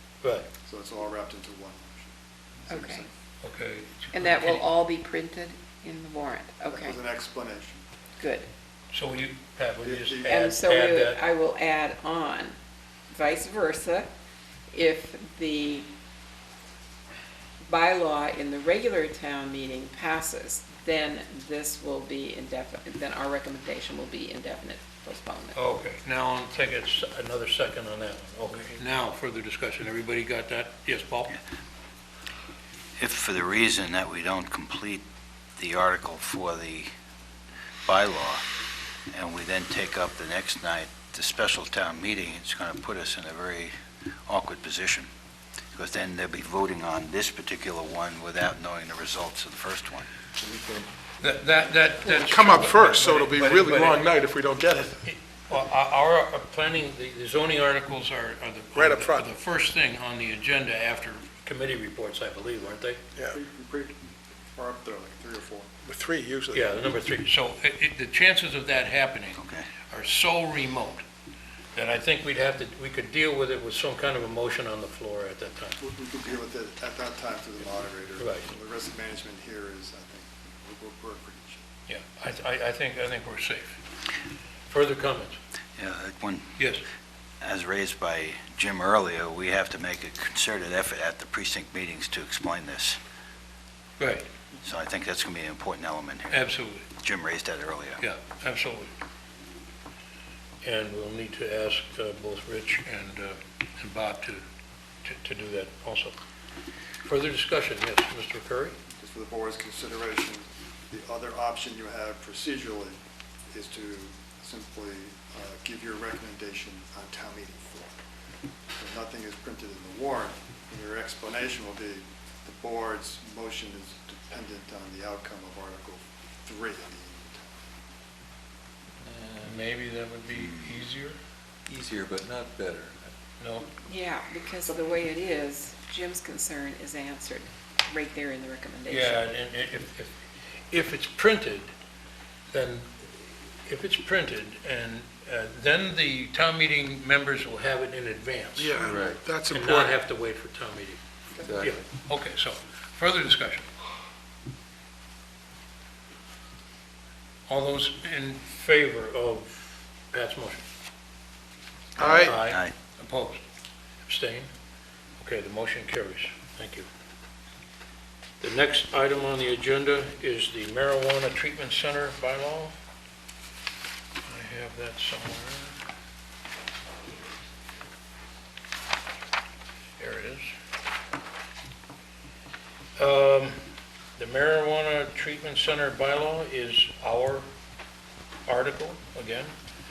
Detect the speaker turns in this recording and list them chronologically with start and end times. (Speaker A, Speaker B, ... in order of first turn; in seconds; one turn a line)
Speaker A: 0.2-0.5
Speaker B: 0.6-3.1
Speaker C: 2.7-3.0
Speaker A: 3.4-4.7
Speaker C: 4.1-7.0
Speaker B: 6.7-7.8
Speaker C: 8.2-8.5
Speaker A: 8.9-11.2
Speaker B: 9.8-10.5
Speaker C: 10.2-12.5
Speaker C: 13.1-14.1
Speaker C: 14.7-15.9
Speaker C: 17.6-25.6
Speaker A: 25.5-31.3
Speaker D: 33.0-35.0
Speaker D: 35.6-36.9
Speaker D: 37.9-38.4
Speaker D: 39.1-43.7
Speaker D: 44.3-45.1
Speaker D: 45.7-50.1
Speaker E: 50.4-50.9
Speaker A: 51.2-54.1
Speaker F: 52.0-55.0
Speaker A: 55.0-63.0
Speaker F: 58.8-59.3
Speaker B: 63.3-65.7
Speaker F: 65.8-66.7
Speaker A: 66.5-71.0
Speaker D: 69.4-69.7
Speaker A: 71.7-75.8
Speaker B: 75.8-81.6
Speaker A: 78.2-78.5
Speaker A: 81.9-83.8
Speaker A: 84.7-85.4
Speaker D: 85.8-86.5
Speaker A: 86.6-86.8
Speaker D: 87.4-93.0
Speaker A: 94.0-94.3
Speaker D: 94.6-96.5
Speaker A: 96.3-96.9
Speaker D: 97.0-98.0
Speaker A: 98.0-98.9
Speaker A: 100.6-104.4
Speaker A: 105.0-106.1
Speaker A: 107.0-108.8
Speaker B: 109.0-113.0
Speaker B: 113.5-118.0
Speaker B: 118.8-127.6
Speaker E: 129.0-129.6
Speaker A: 129.4-131.2
Speaker E: 131.7-133.1
Speaker A: 133.4-133.7
Speaker C: 133.8-139.2
Speaker A: 138.9-140.1
Speaker A: 140.7-141.7
Speaker A: 142.5-143.1
Speaker A: 143.7-151.0
Speaker F: 148.6-150.0
Speaker E: 148.8-149.2
Speaker E: 151.4-151.8
Speaker A: 151.6-153.7
Speaker A: 157.5-160.6
Speaker F: 162.0-162.4
Speaker A: 162.0-163.4
Speaker D: 162.4-162.7
Speaker A: 164.0-164.5
Speaker A: 165.2-166.9
Speaker A: 168.4-172.7
Speaker A: 174.2-175.8
Speaker A: 180.0-180.5
Speaker A: 183.0-183.6
Speaker A: 184.2-187.5
Speaker A: 188.5-189.5